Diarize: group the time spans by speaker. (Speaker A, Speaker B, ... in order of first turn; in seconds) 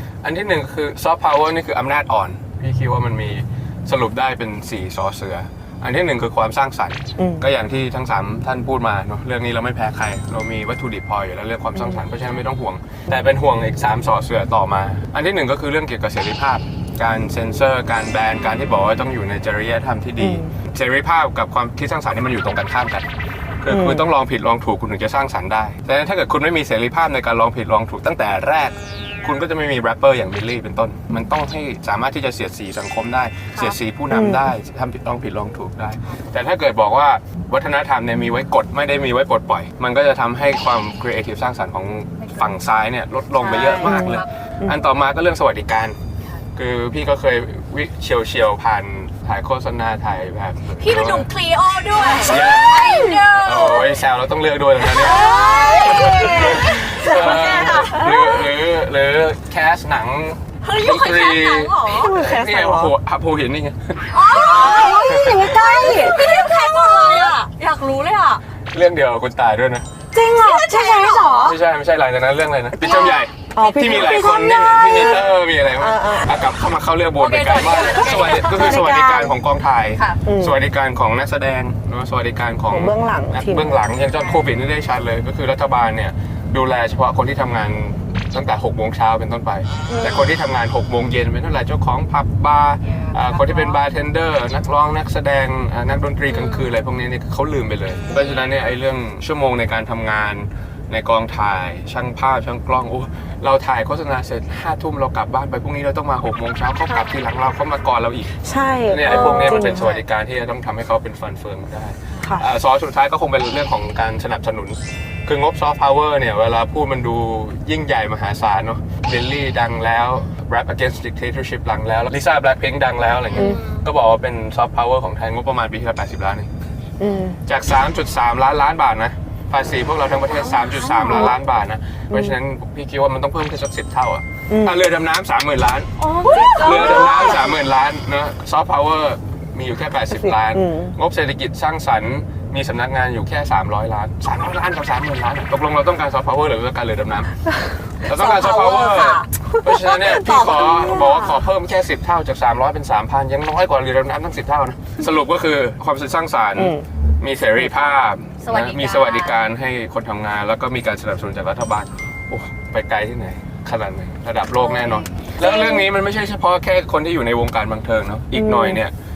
Speaker A: 0.2-23.1, 23.6-46.0, 46.5-51.3, 52.2-66.4, 68.7-69.9, 71.4-126.5, 127.5-135.9, 136.5-147.4, 148.0-168.9
Speaker B: 7.2-7.4, 20.2-20.5, 23.7-24.1, 34.1-34.5, 43.7-44.8, 52.0-53.2, 55.1-57.6, 61.9-62.9, 64.3-67.1, 70.1-71.6, 72.7-76.3, 78.4-79.3, 80.2-80.5, 82.7-83.8, 89.9-90.2, 108.4-110.0, 112.2-112.4, 127.0-127.4, 134.5-134.8, 136.2-137.5, 140.1-140.9, 149.5-151.0, 156.6-156.8, 168.3-168.8
Speaker C: 42.2-42.5, 43.4-44.3, 50.8-54.0, 54.9-58.4, 60.6-62.1, 64.1-68.4, 70.2-71.5, 72.8-74.5, 77.1-78.8, 80.0-80.2, 84.1-84.5, 89.8-90.2, 92.8-93.8, 96.3-96.7, 109.0-109.7, 123.3-123.8, 130.3-131.3, 136.0-137.5, 148.1-149.3, 150.2-151.3, 158.4-159.5, 164.7-165.1